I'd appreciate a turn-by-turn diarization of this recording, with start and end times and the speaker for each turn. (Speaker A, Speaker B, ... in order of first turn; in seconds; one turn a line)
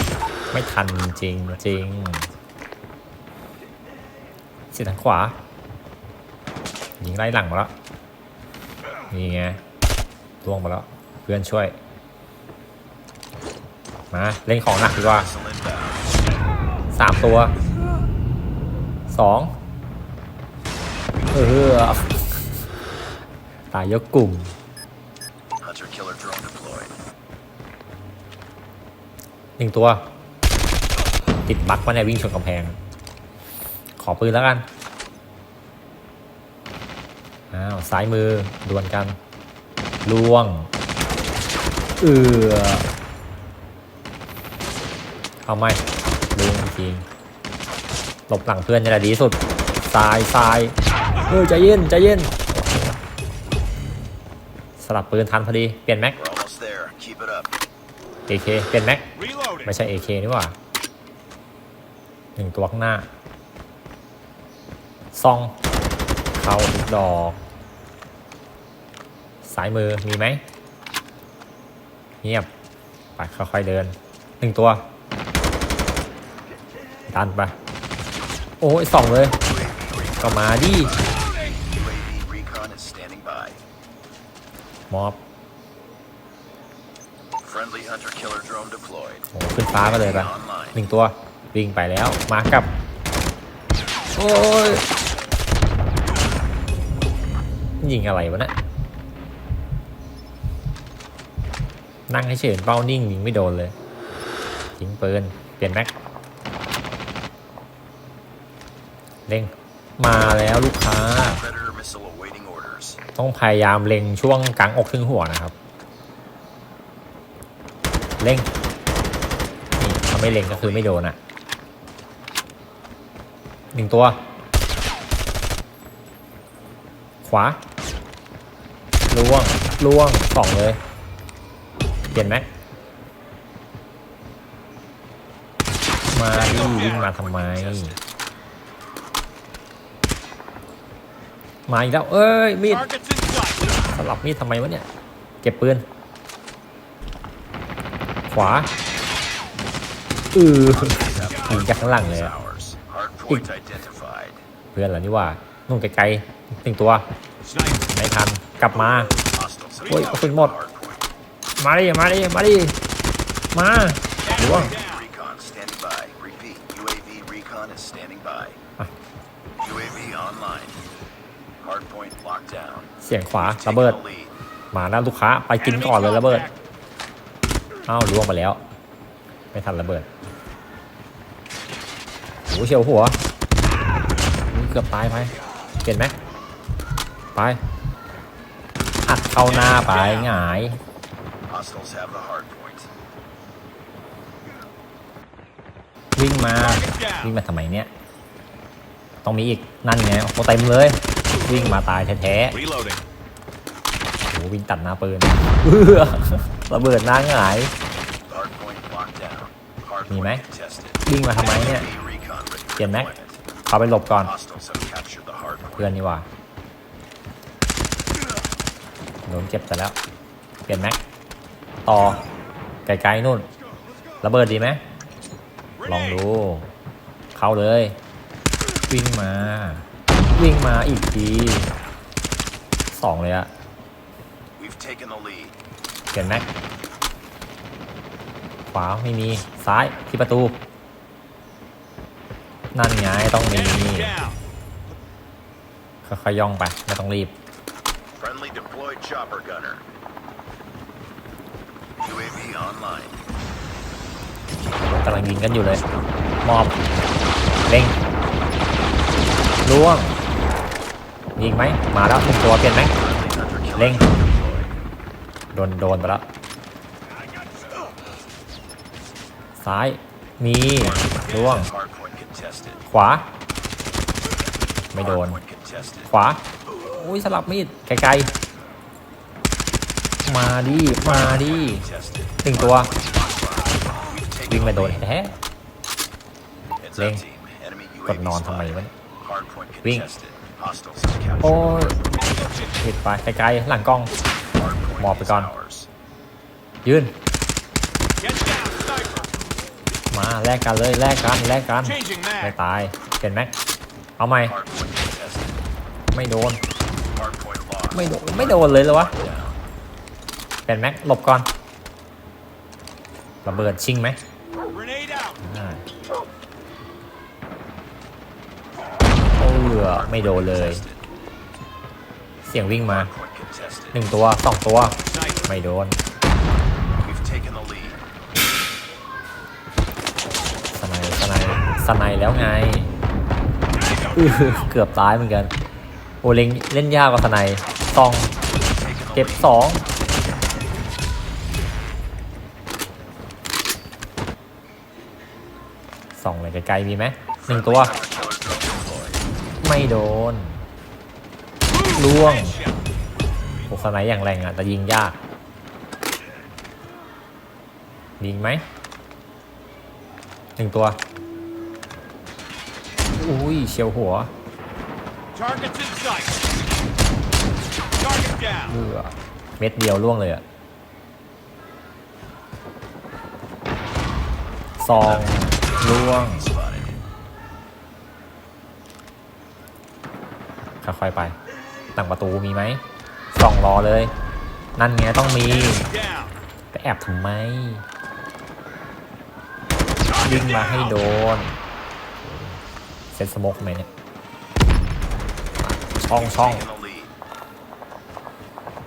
Speaker A: 0.5-2.3
Speaker A: 4.7-5.4
Speaker A: 7.0-7.7
Speaker A: 9.1-9.6
Speaker A: 10.4-11.8
Speaker A: 14.1-15.3
Speaker B: 15.1-16.0
Speaker A: 16.9-17.6
Speaker A: 19.1-19.5
Speaker A: 21.3-22.5
Speaker A: 23.7-24.5
Speaker B: 25.6-26.9
Speaker A: 29.6-30.0
Speaker A: 31.5-32.8
Speaker A: 34.0-34.6
Speaker A: 37.5-39.2
Speaker A: 40.1-40.7
Speaker A: 42.0-42.9
Speaker A: 45.5-45.8
Speaker A: 46.4-47.1
Speaker A: 48.3-53.0
Speaker A: 54.8-56.2
Speaker B: 56.2-57.5
Speaker A: 58.3-60.6
Speaker A: 62.4-63.1
Speaker A: 65.1-65.6
Speaker A: 66.3-67.4
Speaker A: 69.4-70.4
Speaker A: 72.2-72.5
Speaker A: 73.2-74.8
Speaker A: 77.1-77.5
Speaker A: 78.6-79.4
Speaker B: 79.4-83.6
Speaker A: 80.2-81.0
Speaker A: 84.9-85.2
Speaker B: 87.4-89.3
Speaker A: 89.3-92.7
Speaker B: 90.0-90.7
Speaker A: 94.1-94.9
Speaker A: 97.8-98.5
Speaker A: 102.1-103.7
Speaker A: 104.8-105.9
Speaker A: 109.3-111.4
Speaker B: 111.3-113.0
Speaker A: 113.2-115.5
Speaker A: 118.2-118.5
Speaker A: 119.8-121.2
Speaker B: 120.5-120.9
Speaker A: 123.7-124.2
Speaker A: 127.2-127.6
Speaker A: 129.1-130.8
Speaker A: 132.1-132.5
Speaker A: 136.1-138.0
Speaker B: 137.0-138.0
Speaker A: 141.7-143.0
Speaker A: 143.6-144.9
Speaker A: 145.4-145.9
Speaker A: 148.3-148.7
Speaker A: 150.3-152.3
Speaker B: 150.8-154.4
Speaker A: 154.7-157.1
Speaker A: 157.8-159.2
Speaker B: 159.3-161.1
Speaker A: 159.9-160.6
Speaker A: 161.6-162.8
Speaker A: 163.5-164.8
Speaker B: 164.3-168.6
Speaker B: 169.6-170.8
Speaker B: 171.6-172.9
Speaker A: 173.0-174.0
Speaker B: 173.4-174.3
Speaker A: 174.7-176.5
Speaker A: 177.9-178.6
Speaker A: 179.5-180.1
Speaker A: 182.5-183.2
Speaker A: 184.3-186.2
Speaker A: 187.3-187.6
Speaker A: 189.1-190.8
Speaker B: 191.5-192.9
Speaker A: 196.2-197.9
Speaker A: 199.2-202.7
Speaker A: 204.3-207.7
Speaker B: 208.3-213.4
Speaker A: 210.1-210.4
Speaker A: 211.1-211.9
Speaker A: 212.8-213.1
Speaker A: 213.7-214.3
Speaker B: 214.2-215.8
Speaker A: 215.8-216.3
Speaker A: 219.3-220.0
Speaker A: 220.7-221.0
Speaker A: 221.8-222.2
Speaker A: 222.9-223.5
Speaker A: 224.2-224.8
Speaker A: 225.8-226.7
Speaker A: 227.3-228.0
Speaker A: 228.9-231.7
Speaker A: 232.9-233.5
Speaker B: 234.6-235.6
Speaker A: 236.1-236.5
Speaker A: 238.7-240.6
Speaker A: 242.7-244.2
Speaker A: 246.0-247.3
Speaker B: 248.2-249.8
Speaker B: 252.0-253.2
Speaker A: 254.9-255.8
Speaker A: 256.4-256.8
Speaker A: 257.7-258.0
Speaker A: 259.6-260.2
Speaker A: 261.4-262.9
Speaker B: 263.0-264.7
Speaker A: 263.8-264.1
Speaker A: 265.5-266.3
Speaker A: 269.6-271.7
Speaker B: 270.8-272.8
Speaker A: 272.9-273.3
Speaker A: 274.9-275.4
Speaker B: 275.0-276.1
Speaker A: 276.1-278.3
Speaker A: 280.3-281.9
Speaker B: 281.6-285.0
Speaker A: 282.4-282.9
Speaker A: 284.5-285.4
Speaker B: 286.8-292.2
Speaker A: 286.9-287.2
Speaker A: 288.1-288.9
Speaker A: 291.4-292.0
Speaker A: 292.8-294.1
Speaker B: 294.6-295.9
Speaker A: 295.0-295.5
Speaker A: 296.9-297.2
Speaker C: 298.2-299.2
Speaker A: 300.1-303.5
Speaker A: 304.2-304.6
Speaker B: 304.5-305.5
Speaker A: 306.1-306.6
Speaker B: 307.1-308.0
Speaker A: 307.9-309.3
Speaker B: 309.2-309.6
Speaker A: 310.7-311.5
Speaker A: 313.4-314.2
Speaker A: 315.2-315.9
Speaker A: 319.3-320.8
Speaker B: 319.8-321.0
Speaker A: 322.4-323.1
Speaker B: 322.9-323.9
Speaker A: 323.9-326.0
Speaker B: 327.0-328.0
Speaker A: 330.7-332.9
Speaker A: 334.0-335.5
Speaker A: 336.2-338.3
Speaker B: 338.6-339.5
Speaker A: 339.1-339.8
Speaker A: 346.2-347.9
Speaker B: 347.5-349.2
Speaker A: 349.6-350.6
Speaker A: 351.9-352.7
Speaker A: 353.7-355.2
Speaker A: 358.2-358.6
Speaker A: 360.6-361.0
Speaker A: 363.1-364.3
Speaker C: 365.4-366.3
Speaker C: 368.0-368.5
Speaker A: 368.5-370.4
Speaker A: 374.8-376.5
Speaker B: 376.2-376.9
Speaker A: 380.8-381.4
Speaker A: 381.9-384.1
Speaker A: 384.8-385.9
Speaker A: 386.7-387.9
Speaker A: 390.1-391.6
Speaker A: 392.3-392.6
Speaker A: 393.1-393.9
Speaker A: 395.6-396.7
Speaker B: 396.1-397.1